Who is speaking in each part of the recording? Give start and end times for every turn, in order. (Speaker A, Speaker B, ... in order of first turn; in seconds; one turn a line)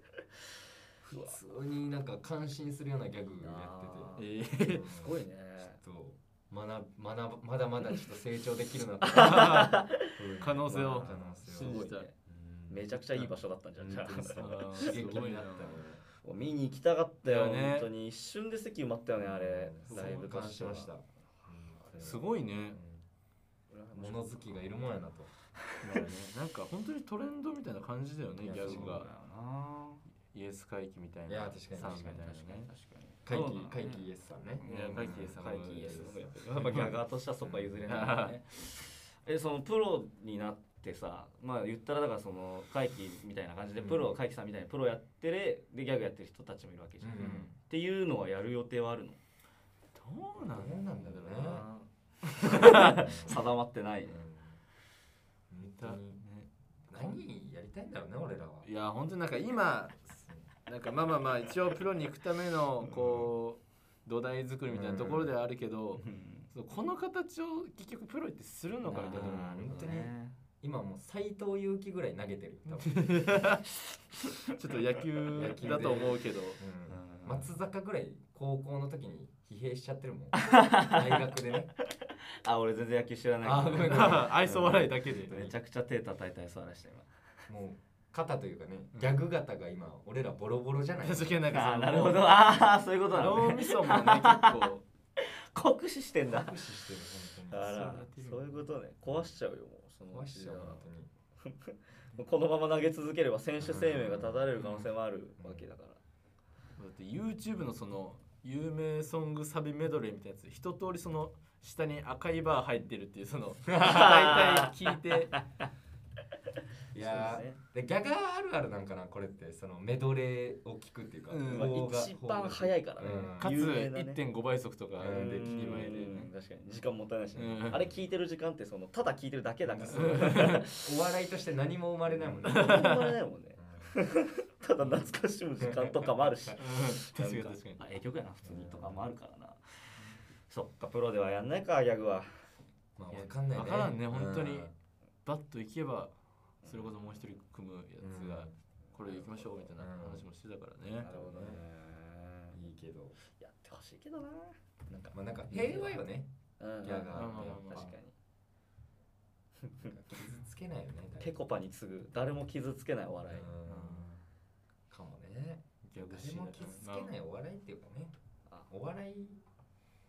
Speaker A: 1.0-16.0
Speaker B: 1.1-1.4
Speaker B: 3.4-4.3
Speaker C: 4.2-4.9
Speaker B: 4.9-5.8
Speaker B: 9.1-10.0
Speaker C: 9.1-9.8
Speaker C: 10.4-12.1
Speaker B: 10.9-12.1
Speaker B: 12.7-15.0
Speaker C: 14.2-15.8
Speaker B: 16.2-20.9
Speaker C: 17.2-17.9
Speaker A: 19.1-23.0
Speaker C: 19.9-20.3
Speaker C: 22.0-22.8
Speaker B: 23.7-24.8
Speaker A: 23.9-25.3
Speaker C: 25.8-29.1
Speaker A: 28.4-29.0
Speaker B: 28.5-30.0
Speaker C: 30.3-32.7
Speaker A: 31.3-32.3
Speaker B: 31.8-49.2
Speaker A: 33.2-36.9
Speaker C: 34.6-36.9
Speaker A: 37.4-38.1
Speaker C: 37.9-38.4
Speaker A: 43.8-44.1
Speaker A: 47.0-47.5
Speaker C: 47.2-47.5
Speaker C: 49.9-51.9
Speaker A: 50.4-51.6
Speaker B: 52.4-54.2
Speaker C: 52.5-52.8
Speaker A: 52.7-53.4
Speaker A: 54.0-54.6
Speaker A: 55.5-56.2
Speaker C: 55.8-57.2
Speaker A: 56.9-58.7
Speaker C: 58.6-70.0
Speaker A: 64.7-65.3
Speaker B: 66.0-66.5
Speaker B: 68.8-70.3
Speaker A: 69.0-73.6
Speaker C: 72.8-73.8
Speaker C: 74.4-76.6
Speaker A: 75.3-81.7
Speaker B: 76.9-77.5
Speaker B: 80.4-81.3
Speaker B: 82.4-87.1
Speaker A: 83.4-85.5
Speaker C: 83.4-85.3
Speaker A: 87.5-91.4
Speaker C: 91.0-92.4
Speaker B: 91.5-96.6
Speaker C: 93.1-94.8
Speaker A: 96.2-97.8
Speaker B: 97.5-100.9
Speaker C: 97.6-98.7
Speaker A: 100.1-101.1
Speaker B: 101.4-106.0
Speaker A: 103.6-104.7
Speaker A: 105.4-105.7
Speaker C: 106.8-115.3
Speaker A: 113.7-114.1
Speaker B: 113.8-114.7
Speaker B: 116.9-117.6
Speaker A: 116.9-123.6
Speaker C: 121.3-121.8
Speaker B: 121.4-124.2
Speaker C: 123.4-126.3
Speaker A: 125.0-125.6
Speaker B: 125.0-130.9
Speaker C: 127.3-127.9
Speaker A: 129.7-132.8
Speaker C: 129.9-130.6
Speaker B: 132.4-139.6
Speaker C: 132.5-133.1
Speaker A: 133.6-134.0
Speaker A: 134.8-136.6
Speaker C: 136.6-137.8
Speaker A: 138.4-139.0
Speaker B: 140.5-142.3
Speaker A: 142.9-144.7
Speaker C: 143.1-144.7
Speaker C: 145.2-151.1
Speaker B: 146.6-146.9
Speaker A: 148.0-148.5
Speaker B: 148.9-149.4
Speaker A: 149.8-150.2
Speaker B: 151.0-152.6
Speaker A: 151.0-151.6
Speaker A: 152.5-153.2
Speaker B: 153.3-156.0
Speaker A: 155.1-157.9
Speaker B: 156.6-158.1
Speaker C: 157.1-158.0
Speaker B: 159.7-159.9
Speaker A: 159.8-161.3
Speaker B: 161.2-163.5
Speaker A: 163.3-164.0
Speaker C: 163.6-164.2
Speaker A: 164.9-168.1
Speaker C: 165.8-167.1
Speaker A: 168.7-169.4